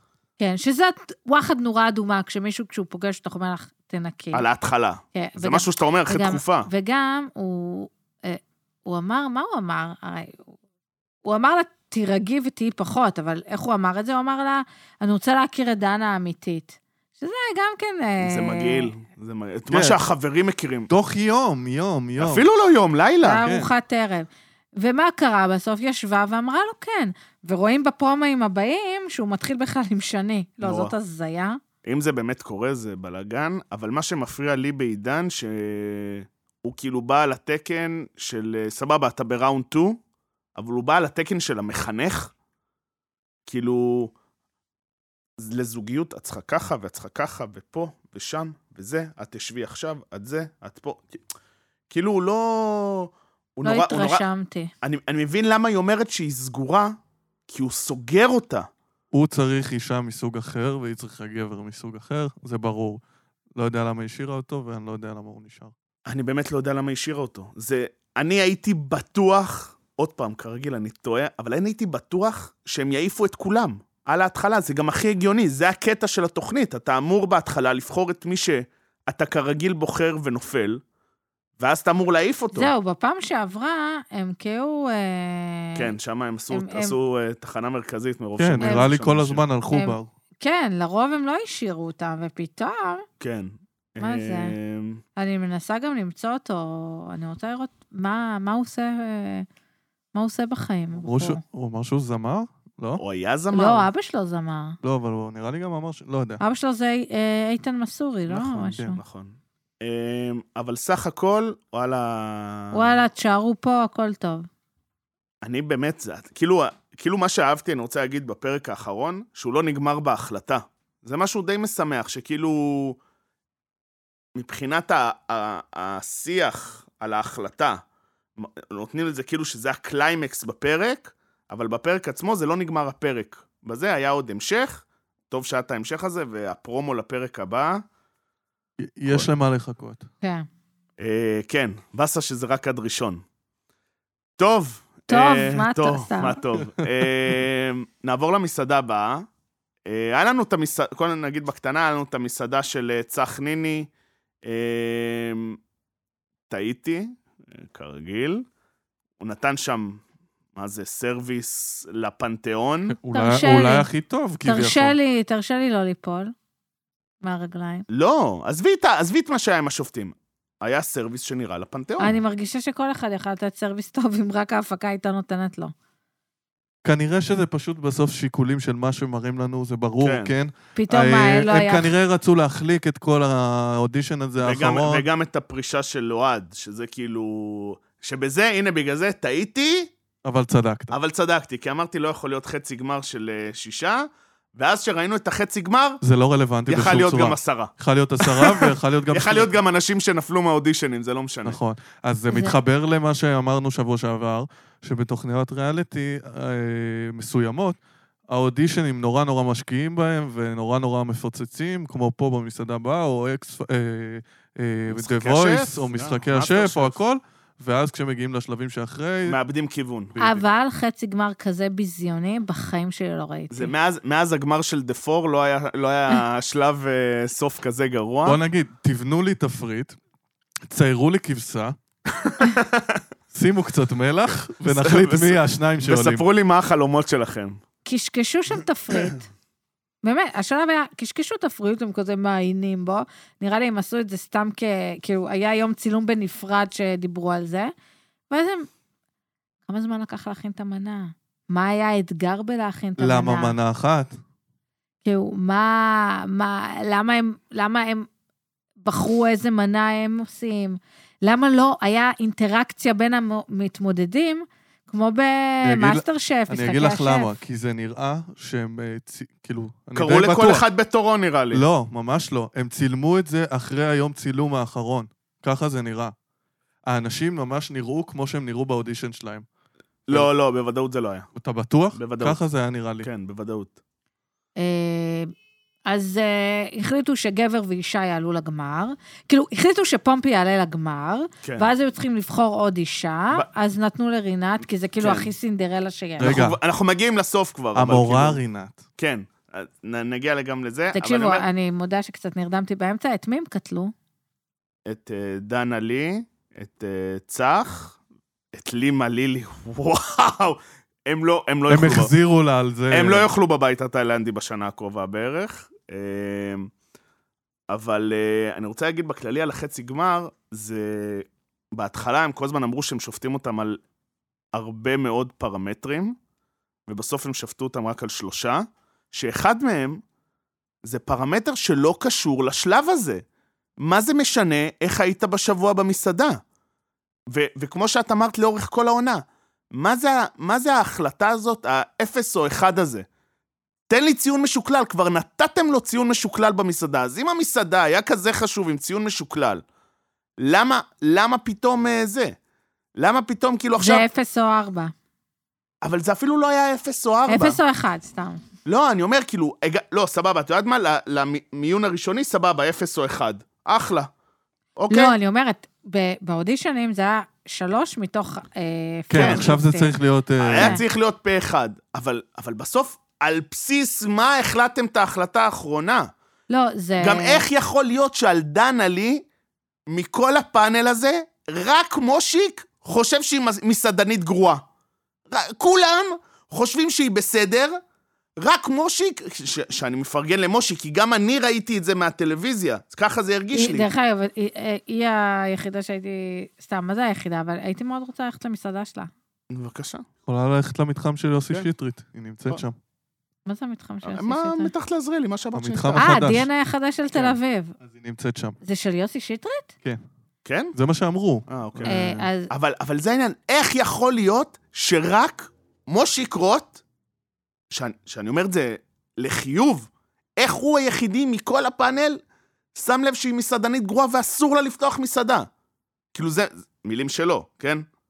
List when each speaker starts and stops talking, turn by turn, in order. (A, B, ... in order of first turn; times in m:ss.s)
0:00.4-0:04.4 A
0:04.3-0:06.7 B
0:05.1-0:10.5 A
0:11.2-0:18.9 A
0:18.2-0:20.9 B
0:19.7-0:20.0 C
0:20.9-0:22.4 C
0:22.2-0:23.4 B
0:23.2-0:31.6 A
0:23.4-0:23.7 C
0:30.6-0:30.9 B
0:31.8-0:40.0 B
0:40.6-0:42.3 B
0:43.5-0:44.1 B
0:45.4-0:51.2 B
0:51.9-0:54.2 B
0:53.6-0:54.7 A
0:54.8-0:56.9 B
0:57.5-0:58.7 B
0:59.1-1:03.0 C
1:03.5-1:05.7 C
1:06.0-1:20.8 B
1:21.6-1:22.7 B
1:22.5-1:25.9 A
1:25.8-1:29.4 B
1:26.5-1:26.9 A
1:28.4-1:30.1 C
1:28.6-1:28.9 A
1:29.7-1:33.0 A
1:33.2-1:35.0 B
1:34.0-1:34.6 A
1:35.2-1:39.4 A
1:40.1-1:41.4 A
1:41.0-1:43.0 C
1:43.0-1:43.9 B
1:43.5-1:44.8 A
1:44.8-1:46.4 C
1:46.4-1:49.0 A
1:48.3-1:53.0 B
1:52.7-1:54.4 A
1:55.4-2:03.0 B
2:04.3-2:07.8 B
2:08.4-2:17.8 B
2:18.8-2:20.1 C
2:20.2-2:20.5 A
2:21.0-2:23.2 B
2:24.4-2:29.2 B
2:25.1-2:26.4 A
2:29.9-2:33.9 B
2:34.4-2:35.6 B
2:36.5-2:38.4 B
2:39.2-2:40.0 B
2:40.5-2:43.0 B
2:42.9-2:45.0 C
2:43.1-2:43.9 A
2:44.4-2:46.3 A
2:47.2-2:47.8 A
2:47.9-2:52.2 B
2:52.0-2:55.7 A
2:56.8-3:05.0 C
3:00.0-3:00.3 B
3:00.8-3:01.9 A
3:04.4-3:09.9 B
3:10.2-3:10.9 C
3:10.9-3:16.0 B
3:16.0-3:19.5 C
3:16.7-3:21.6 B
3:21.4-3:27.8 C
3:22.3-3:22.6 A
3:28.3-3:39.4 C
3:34.9-3:37.0 B
3:39.2-3:40.2 B
3:40.2-3:40.4 C
3:40.2-3:43.7 A
3:43.5-3:48.4 B
3:48.2-3:50.0 C
3:50.6-3:51.8 C
3:52.1-3:53.0 B
3:53.3-3:56.2 C
3:54.6-3:57.6 B
3:57.8-3:59.2 A
4:00.0-4:07.7 A
4:08.3-4:08.7 A
4:09.6-4:13.6 A
4:13.0-4:14.1 C
4:15.0-4:18.1 A
4:18.8-4:27.3 A
4:25.6-4:30.6 C
4:30.0-4:31.6 B
4:31.5-4:36.1 C
4:36.9-4:39.4 C
4:40.1-4:41.3 B
4:41.3-4:43.1 C
4:42.0-4:42.4 B
4:43.0-4:43.8 B
4:44.6-4:45.3 A
4:45.9-4:56.4 A
4:51.4-4:51.7 B
4:55.0-4:55.3 B
4:56.2-4:56.6 C
4:56.2-4:58.4 B
4:57.7-4:58.8 C
4:59.0-5:01.4 B
5:00.9-5:03.9 A
5:04.8-5:08.0 B
5:08.5-5:12.1 B
5:11.7-5:13.3 C
5:12.9-5:16.7 B
5:17.7-5:23.8 B
5:24.5-5:26.2 B
5:26.9-5:30.0 B
5:30.8-5:33.2 B
5:33.8-5:36.4 B
5:37.3-5:43.0 B
5:43.9-5:49.6 B
5:50.4-5:52.4 B
5:53.0-5:54.1 B
5:53.8-5:54.9 A
5:55.8-5:57.6 B
5:57.3-5:58.4 A
5:58.6-6:04.1 B
6:04.8-6:05.1 B
6:04.9-6:09.9 A
6:09.1-6:10.8 C
6:09.2-6:09.5 B
6:10.4-6:16.1 B
6:10.6-6:10.8 A
6:16.5-6:17.4 A
6:17.0-6:19.2 B
6:19.9-6:24.6 B
6:25.3-6:27.8 B
6:28.4-6:33.9 B
6:33.5-6:39.1 A
6:39.5-6:40.0 B
6:40.2-6:42.8 C
6:43.4-6:44.7 A
6:44.0-6:46.1 B
6:45.5-6:46.5 C
6:46.0-6:47.8 A
6:47.8-6:48.6 C
6:48.6-6:49.7 A
6:50.4-6:50.7 B
6:50.7-6:52.3 C
6:51.5-6:56.8 B
6:51.8-6:52.5 A
6:57.7-7:02.2 B
7:02.7-7:05.5 B
7:06.1-7:07.8 B